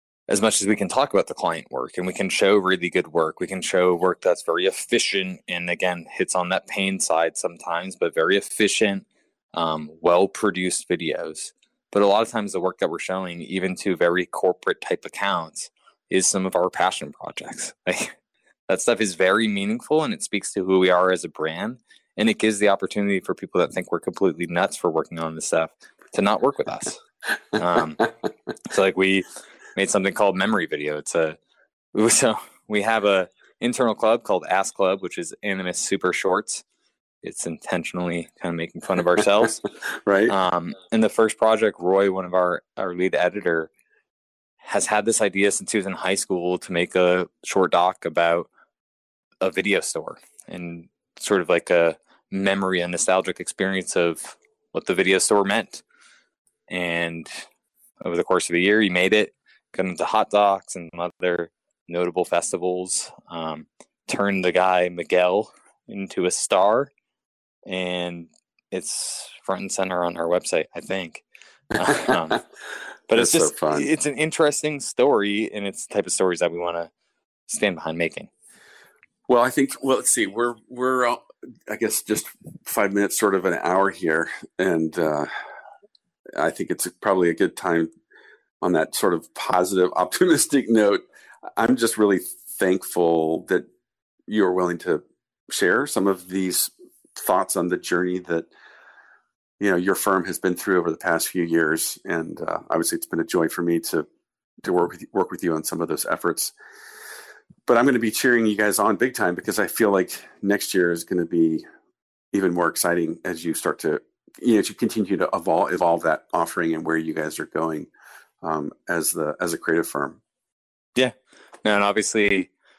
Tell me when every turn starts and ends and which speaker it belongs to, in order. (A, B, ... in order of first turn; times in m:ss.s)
0:00.3-0:18.2 A
0:18.7-0:27.0 A
0:27.5-0:28.1 A
0:28.7-0:31.4 A
0:31.9-0:36.6 A
0:37.2-0:39.6 A
0:40.0-0:40.4 B
0:40.3-0:43.7 A
0:44.6-0:48.5 A
0:49.4-0:55.8 A
0:56.7-0:57.4 A
0:58.0-1:06.9 A
1:07.7-1:12.4 A
1:11.9-1:12.4 B
1:13.1-1:16.9 A
1:13.1-1:13.9 B
1:17.5-1:18.3 A
1:19.3-1:25.3 B
1:26.4-1:27.9 B
1:28.6-1:31.0 B
1:31.6-1:33.7 B
1:34.3-1:38.5 B
1:39.6-1:44.1 B
1:44.6-1:46.5 B
1:47.7-1:51.6 B
1:52.3-1:57.9 B
1:58.4-2:00.2 B
2:01.0-2:02.5 A